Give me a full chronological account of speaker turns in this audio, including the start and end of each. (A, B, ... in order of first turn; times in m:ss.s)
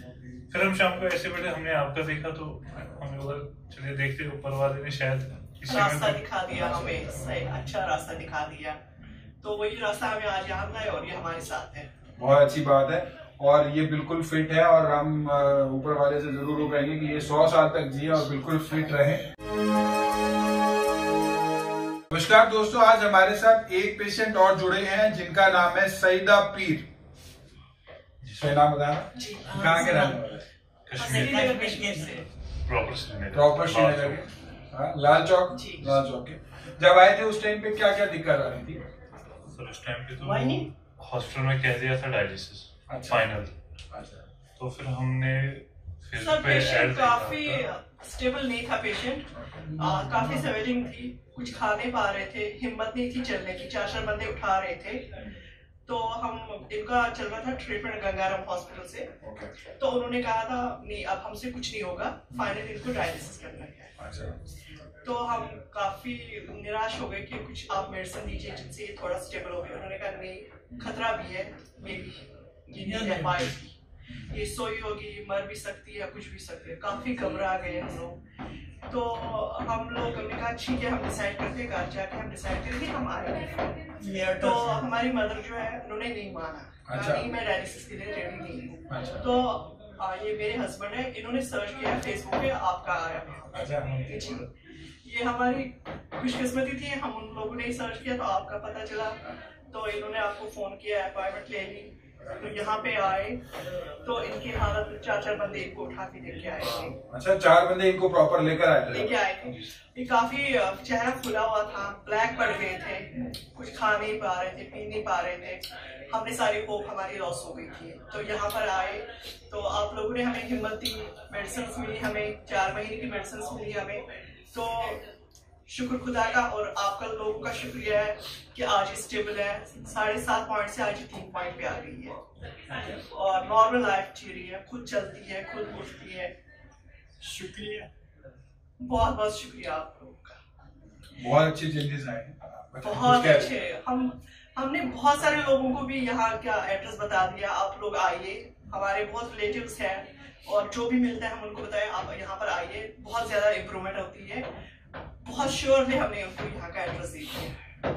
0:00.5-0:06.2 A
0:05.7-0:08.8 B
0:06.5-0:07.0 C
0:09.4-0:11.9 B
0:12.2-0:19.3 C
0:22.1-0:26.9 C
0:28.2-0:28.5 A
0:28.4-0:30.4 C
0:29.1-0:29.6 B
0:29.4-0:30.2 D
0:30.8-0:31.6 A
0:31.0-0:32.2 B
0:31.0-0:32.2 D
0:32.6-0:34.3 A
0:33.3-0:38.8 C
0:35.5-0:36.0 B
0:39.4-0:43.5 A
0:40.2-0:40.7 D
0:42.9-0:43.3 C
0:43.9-0:44.2 C
0:44.6-0:47.6 A
0:46.2-0:55.2 B
0:49.5-0:50.0 C
0:49.9-0:50.2 D
0:55.8-0:59.1 B
0:59.2-0:59.5 C
0:59.8-1:03.9 B
1:04.0-1:04.4 C
1:05.0-1:13.7 B
1:12.7-1:13.5 D
1:14.1-1:14.4 C
1:14.3-1:18.2 B
1:18.9-1:34.5 B
1:24.0-1:24.8 D
1:26.9-1:27.3 C
1:28.9-1:29.3 C
1:33.5-1:34.0 C
1:35.0-1:43.4 B
1:44.0-1:47.0 B
1:47.1-1:49.1 C
1:48.9-2:05.0 B
2:05.7-2:12.2 B
2:12.7-2:13.0 C
2:13.0-2:16.3 B
2:17.2-2:17.9 D
2:18.8-2:20.4 B
2:21.2-2:23.5 C
2:22.8-2:34.5 B
2:35.2-2:37.5 B